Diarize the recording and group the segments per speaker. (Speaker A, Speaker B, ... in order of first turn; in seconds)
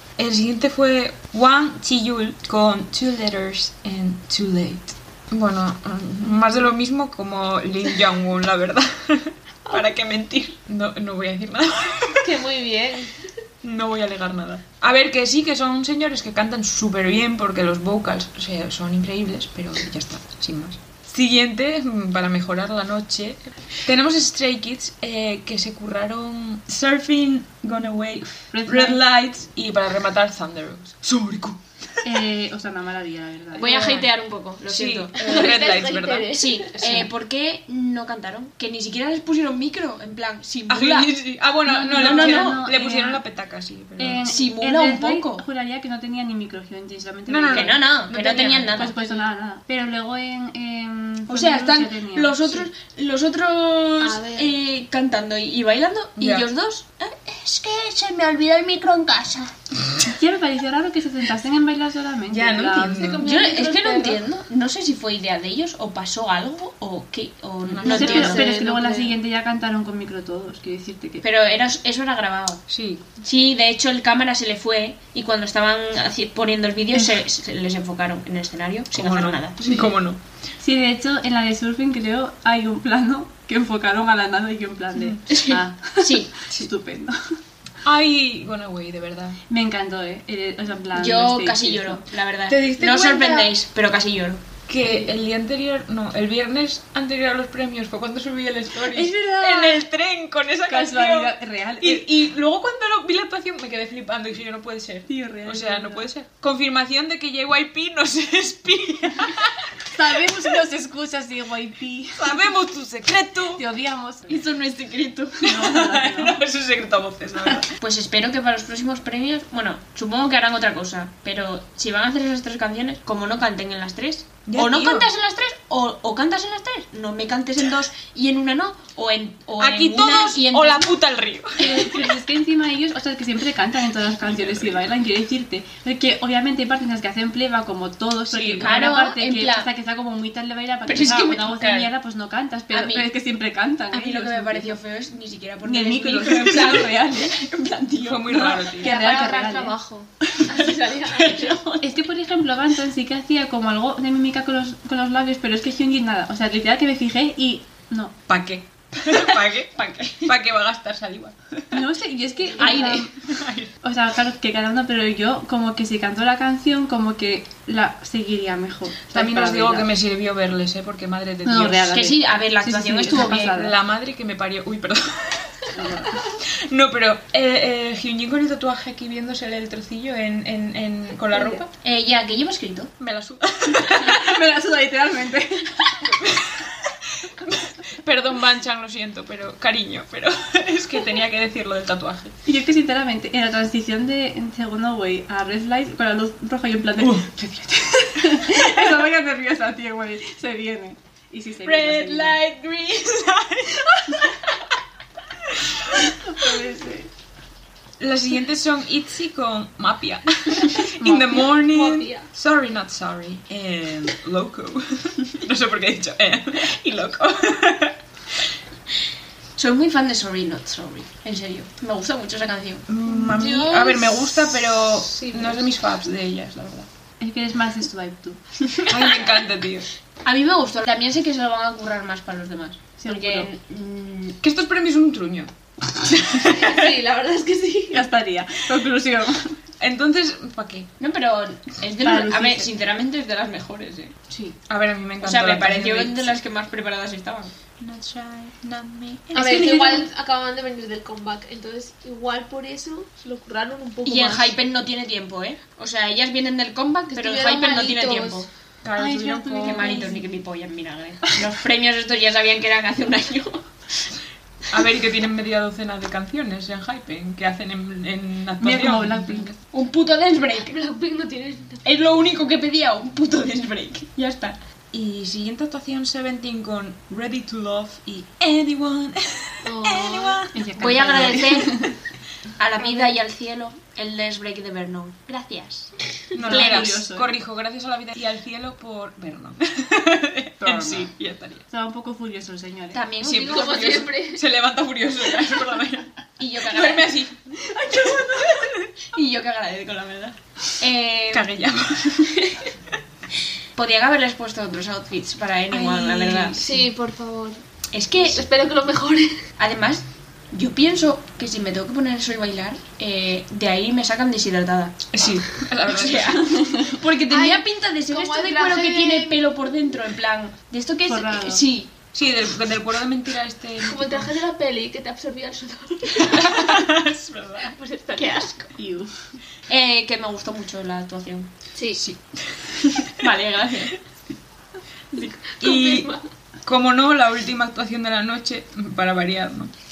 Speaker A: 0.2-12.3, 13.6-32.0, 34.7-36.3, 40.7-44.3, 47.3-48.8, 56.2-56.5, 62.3-63.3, 67.6-68.4, 72.7-73.1, 78.9-80.2, 87.8-89.4, 92.5-93.5, 94.7-110.4, 112.2-113.6, 114.3-117.7, 124.5-125.1, 129.6-132.1, 134.3-134.7, 148.0-148.9, 158.3-161.9, 162.7-163.7, 169.1-172.0, 173.1-181.7, 183.0-184.4, 186.0-192.4, 197.0-197.3, 198.4-198.9, 201.6-204.8, 205.4-206.1, 208.0-218.5, 222.9-226.9, 228.9-229.9, 234.4-236.9, 239.8-240.9, 244.7-246.3, 247.8-250.1, 258.8-260.1, 264.7-269.6, 274.9-281.2, 286.3-291.6, 293.2-296.1, 296.6-298.9, 301.3-302.5, 305.7-306.9, 315.1-316.6, 322.1-324.3, 326.2-327.8, 331.9-333.1, 335.2-336.1, 336.6-339.7
Speaker B: 12.2-13.2, 35.2-37.0, 54.0-54.5, 62.9-64.2, 67.9-69.2, 150.4-151.6, 211.4-212.3, 223.1-225.7, 236.4-238.1, 249.3-254.5, 257.1-258.5, 270.6-271.9, 279.6-280.5, 293.3-294.4, 306.6-309.4, 317.3-319.5, 323.8-326.9, 327.7-328.5, 331.8-332.0, 335.6-336.2
Speaker C: 28.5-29.0, 32.0-34.0, 41.7-43.2, 44.0-52.7, 60.0-63.1, 67.8-71.2, 76.9-77.2, 80.6-87.4, 89.5-92.0, 94.8-95.1, 98.9-99.8, 100.7-102.1, 105.1-106.1, 109.9-112.4, 113.6-114.5, 115.4-116.4, 131.6-144.8, 145.6-147.5, 148.3-149.8, 151.8-158.2, 161.7-163.2, 163.8-169.9, 171.4-173.8, 175.7-176.2, 181.3-181.6, 183.7-186.1, 192.5-202.4, 206.0-207.1, 211.0-211.4, 227.2-228.6, 233.0-233.5, 237.9-239.6, 242.0-242.7, 259.0-260.2, 268.6-269.5, 280.5-281.9, 286.4-287.3, 290.6-291.1, 291.7-293.0, 316.5-316.9, 321.1-321.6, 328.8-329.1
Speaker D: 33.5-35.4, 36.3-41.1, 41.9-42.6, 44.3-45.5, 47.5-49.1, 51.3-59.5, 63.2-68.4, 71.2-72.6, 73.2-79.9, 85.3-86.3, 90.9-94.4, 117.8-130.9, 138.3-139.7, 140.9-141.9, 142.7-143.1, 143.9-151.9, 159.1-160.3, 162.6-163.1, 171.9-173.5, 181.8-182.9, 219.6-222.9, 230.2-234.4, 241.0-244.2, 245.2-247.5, 254.0-258.5, 259.6-264.1, 269.7-270.8, 271.8-274.6, 280.8-281.9, 282.6-287.0, 292.9-294.1, 296.4-297.2, 297.9-301.5, 303.8-306.6, 307.9-308.4, 309.6-315.1, 315.9-321.9, 328.2-328.7, 329.7-331.5, 333.1-334.0